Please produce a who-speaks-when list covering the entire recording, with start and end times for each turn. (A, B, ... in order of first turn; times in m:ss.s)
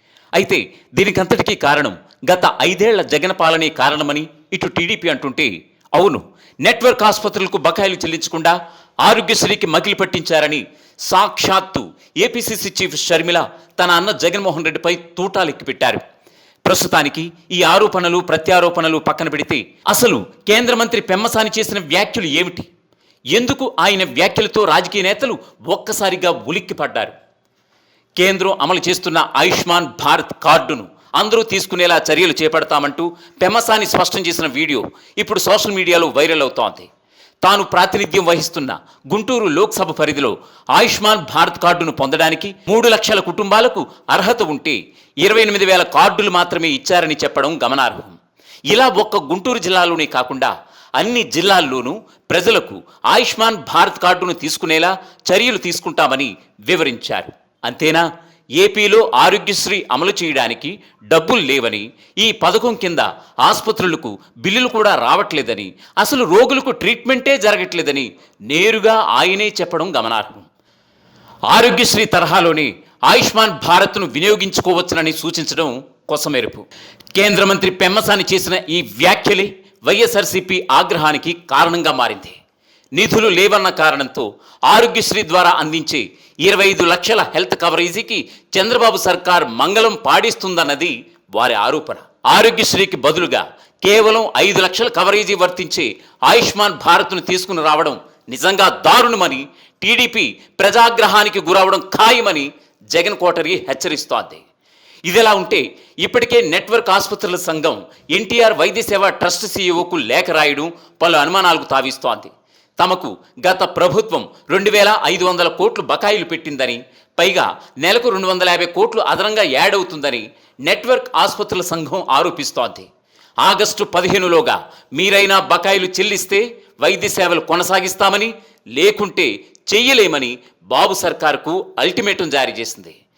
0:00.4-0:16.0 A
0:16.6-0:22.7 A
0:23.3-0:27.2 A
0:28.2-0:36.9 A
0:37.4-0:48.2 A
0:48.7-0:58.0 A
0:58.6-1:10.5 A
1:11.5-1:16.6 A
1:17.2-1:22.4 A
1:23.0-1:44.4 A
1:45.1-2:02.9 A
2:03.4-2:13.0 A